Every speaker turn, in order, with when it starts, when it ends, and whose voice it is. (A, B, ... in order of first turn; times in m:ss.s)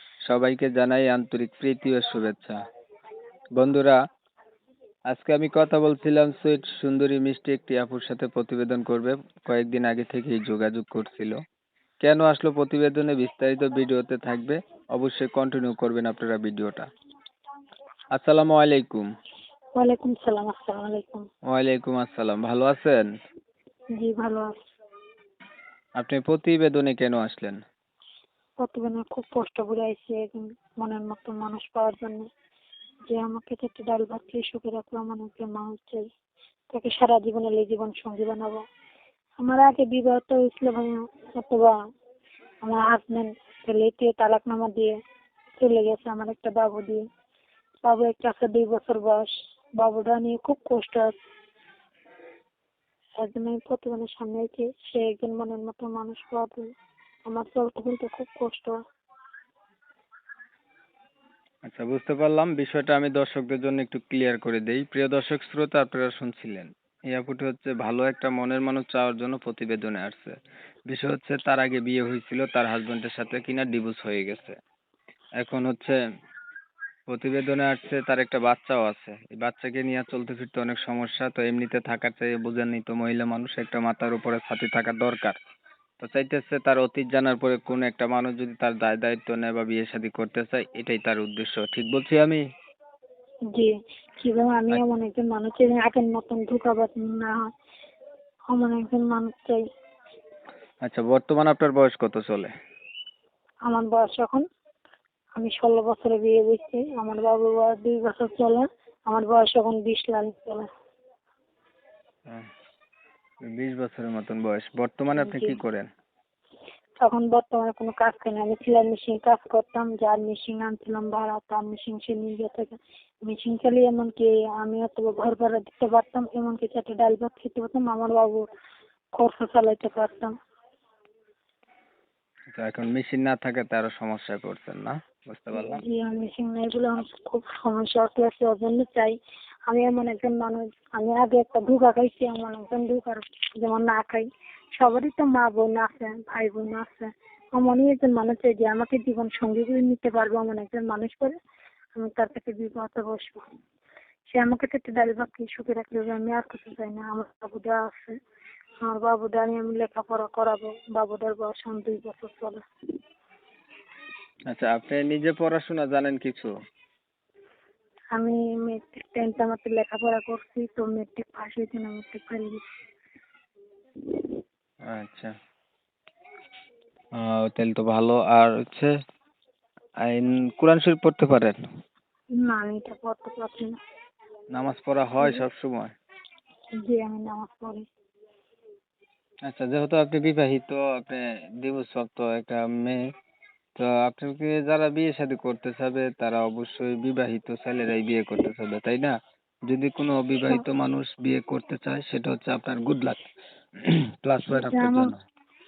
0:00.3-0:02.6 A
0:03.6-0:04.0 A
0:05.1-0:11.4 A
0:12.0-0:16.9 A
0:18.1-0:19.1 A
0:19.8-0:21.3 B
0:21.5-0:23.1 A
0:24.0-0:24.6 B
0:26.0-0:27.6 A
0:28.6-0:32.3 B
0:33.1-0:36.0 B
0:36.7-0:38.6 B
0:39.4-0:41.7 B
0:42.6-0:45.0 B
0:45.6-0:47.0 B
0:47.8-0:51.2 B
0:53.2-0:56.7 B
0:57.3-0:58.8 B
1:01.7-1:10.4 A
1:10.9-1:14.6 A
1:15.4-1:16.0 A
1:17.1-1:25.4 A
1:26.0-1:32.4 A
1:33.5-1:37.5 B
1:38.5-1:39.6 B
1:40.8-1:42.5 A
1:43.7-1:44.4 B
1:45.4-1:50.7 B
1:53.4-1:55.9 A
1:55.2-1:55.6 B
1:57.0-2:02.8 B
2:03.3-2:08.5 B
2:09.2-2:10.3 B
2:12.5-2:15.8 A
2:15.5-2:19.2 B
2:19.7-2:31.3 B
2:32.0-2:33.4 B
2:34.3-2:38.2 B
2:38.8-2:42.6 B
2:44.5-2:46.5 A
2:48.2-2:52.6 B
2:54.9-2:55.3 A
2:57.2-2:58.9 A
3:00.0-3:01.6 A
3:02.4-3:03.8 B
3:04.5-3:05.9 A
3:06.8-3:07.8 B
3:09.5-3:13.0 A
3:13.8-3:19.2 A
3:19.7-3:23.2 A
3:23.8-3:25.2 A
3:24.5-3:25.1 B